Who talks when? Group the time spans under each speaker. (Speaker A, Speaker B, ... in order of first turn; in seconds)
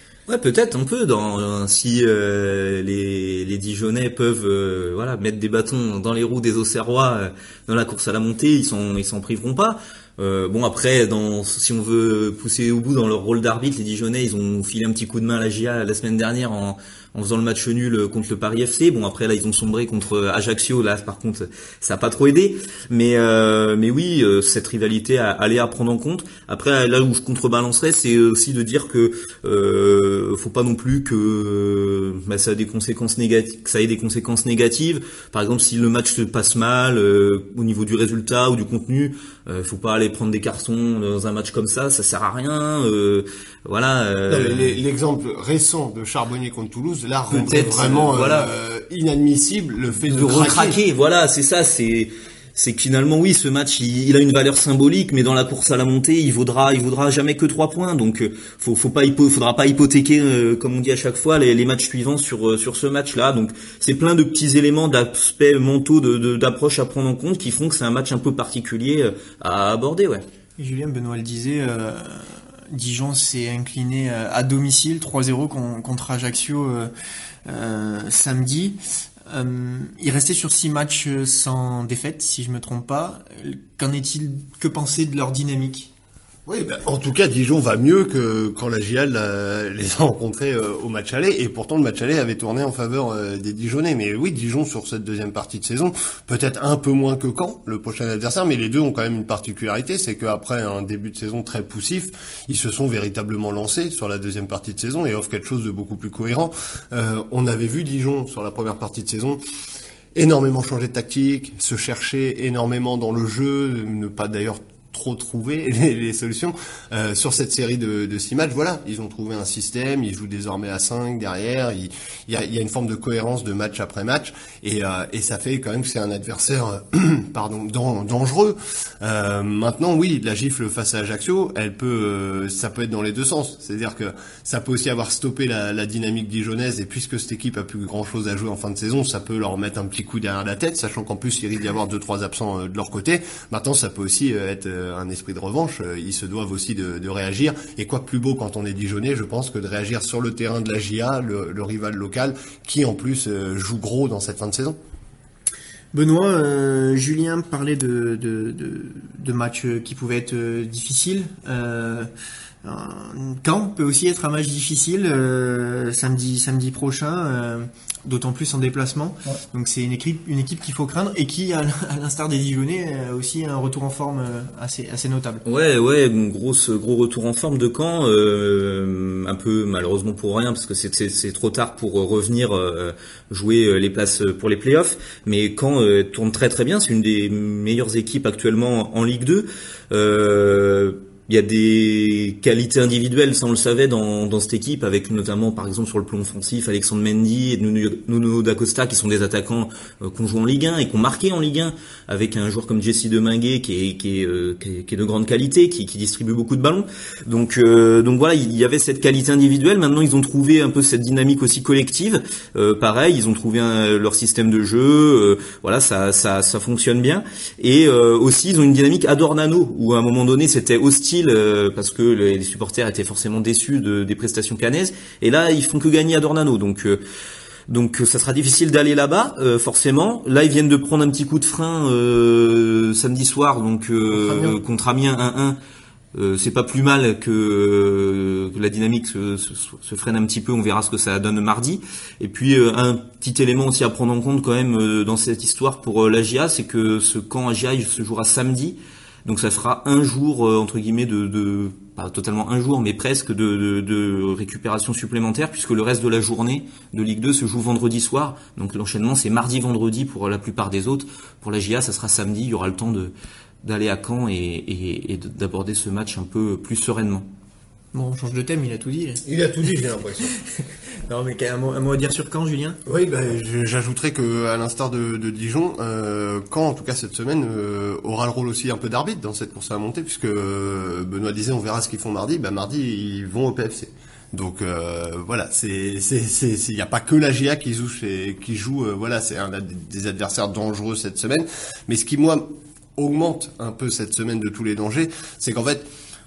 Speaker A: 0.3-44.8, 47.3-48.5, 50.1-70.2, 175.4-227.0, 227.7-235.6, 236.1-267.3
Speaker B: 44.3-50.8, 86.5-109.4, 110.1-154.8, 234.1-234.6, 269.2-270.3, 272.9-295.9
Speaker C: 70.6-76.9, 77.5-78.8, 79.3-85.9, 155.9-162.1, 162.6-175.4, 267.9-269.2, 271.1-272.8